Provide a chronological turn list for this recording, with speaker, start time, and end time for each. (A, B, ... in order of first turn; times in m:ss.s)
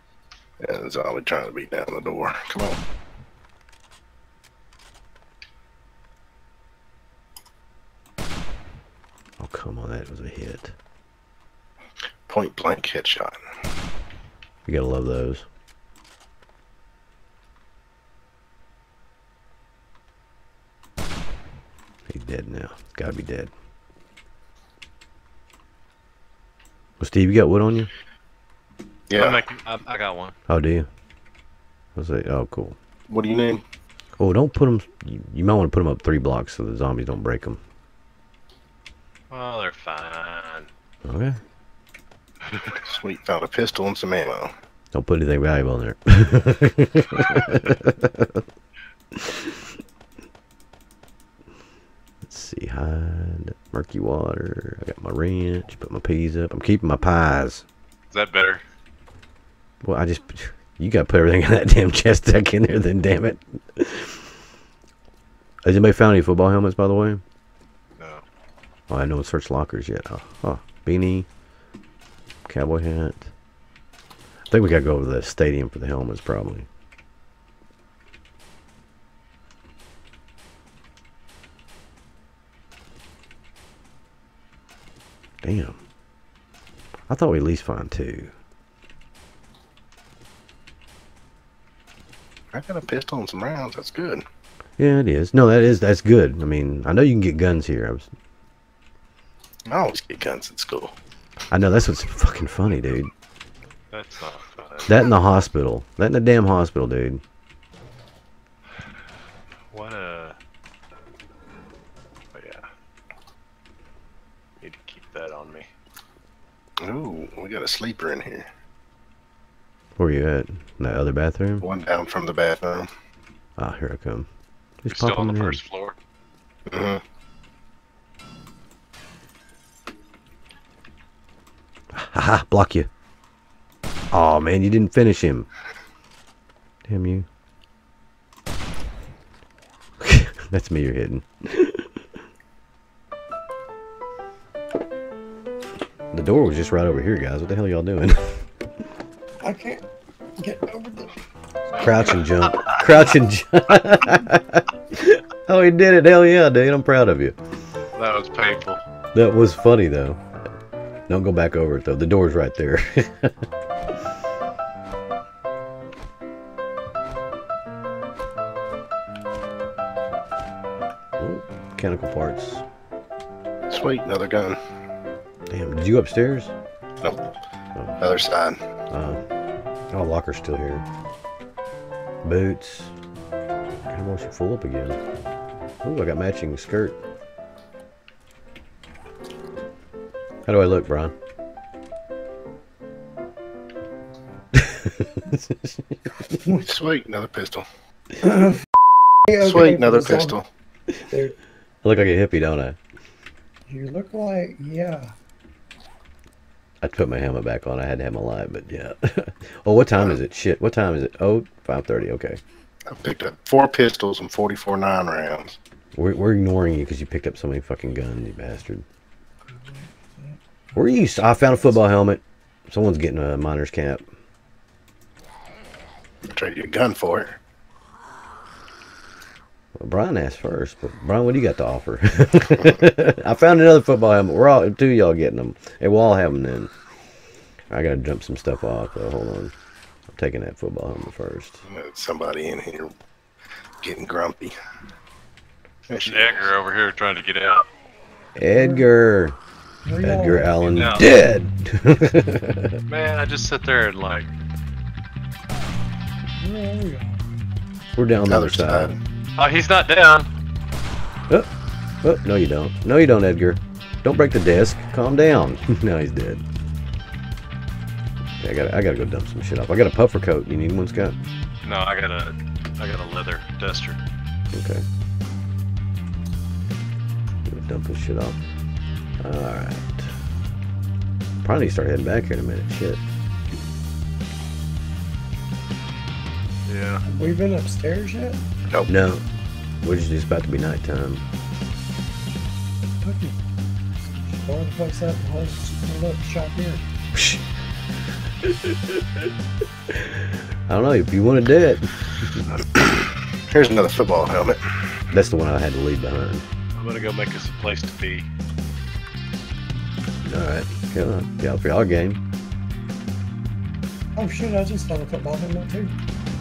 0:00.6-0:02.8 A
0:09.4-0:10.8 B
0:12.3-0:13.4 A
0:14.7-0:15.5 B
0:22.1-0:23.5 B
0:27.0-0:27.9 B
0:29.1-0:29.4 A
0:29.1-0:30.4 C
0:30.5-0:30.9 B
0:32.0-0:32.8 B
0:33.1-0:33.6 A
0:34.2-0:37.6 B
0:39.3-0:40.7 C
0:41.0-0:41.4 B
0:42.5-0:42.8 C
0:42.8-0:44.5 A
0:44.9-0:48.4 B
0:49.1-0:49.6 B
0:52.2-0:57.6 B
0:58.1-0:58.6 C
0:59.8-1:04.2 B
1:05.6-1:07.2 B
1:08.0-1:08.2 C
1:08.9-1:11.3 B
1:12.5-1:13.3 B
1:14.5-1:16.7 B
1:25.4-1:25.8 B
1:27.1-1:28.3 B
1:32.5-1:34.2 A
1:34.8-1:38.1 B
1:39.7-1:40.9 A
1:41.5-1:43.1 B
1:43.9-1:45.0 C
1:44.9-1:47.2 B
1:49.7-1:50.4 C
1:52.3-1:52.7 C
1:54.6-1:55.7 C
1:56.8-1:58.5 A
2:00.0-2:01.7 B
2:01.6-2:02.9 A
2:03.6-2:04.3 B
2:04.8-2:05.6 B
2:04.9-2:06.0 C
2:06.7-2:07.0 A
2:11.9-2:12.9 B
2:14.1-2:15.5 B
2:16.9-2:17.3 B
2:20.0-2:22.0 B
2:26.1-2:28.4 B
2:29.4-2:29.8 D
2:30.4-2:31.1 D
2:31.8-2:37.4 B
2:32.4-2:32.8 C
2:38.0-2:38.8 C
2:39.2-2:40.2 B
2:41.1-2:43.3 B
2:51.2-2:52.6 B
2:53.7-2:54.6 A
2:55.5-2:56.5 B
2:58.0-2:58.6 A
2:58.9-2:59.2 B
2:59.9-3:00.8 B
3:02.2-3:02.9 B
3:03.9-3:05.0 B
3:05.8-3:07.0 B
3:10.5-3:11.1 B
3:14.5-3:16.4 B
3:16.6-3:17.7 A
3:18.2-3:18.7 D
3:19.3-3:20.4 D
3:19.4-3:20.5 A
3:21.1-3:21.4 D
3:21.8-3:22.8 B
3:23.7-3:25.1 D
3:26.8-3:32.4 B
3:32.9-3:35.6 A
3:36.0-3:38.8 B
3:39.5-3:41.8 D
3:40.8-3:44.0 B
3:46.3-3:47.4 A
3:49.8-3:56.7 B
3:57.7-3:59.5 B
4:00.1-4:01.6 B
4:01.7-4:02.9 A
4:03.8-4:04.6 A
4:05.9-4:06.5 A
4:06.0-4:07.7 C
4:08.4-4:09.4 B
4:08.6-4:08.9 D
4:09.8-4:10.6 D
4:10.0-4:12.8 B
4:10.6-4:11.1 C
4:12.9-4:14.3 C
4:16.4-4:17.3 D
4:18.0-4:18.9 B
4:18.3-4:19.0 A
4:19.4-4:20.3 C
4:22.0-4:26.4 B
4:28.4-4:31.2 B
4:31.6-4:34.0 C
4:34.5-4:34.8 B
4:37.5-4:38.4 B
4:39.2-4:40.1 B
4:41.4-4:43.0 B
4:46.7-4:47.0 C
4:47.1-4:48.4 D
4:48.9-4:49.2 B
4:49.8-4:51.2 B
4:53.0-4:53.4 D
4:54.0-4:56.9 D
4:57.1-4:57.4 B
4:58.4-4:59.3 B
4:59.9-5:02.5 B
5:02.7-5:04.6 A
5:05.1-5:06.4 B
5:06.8-5:08.3 C
5:10.2-5:12.2 B
5:14.2-5:16.0 D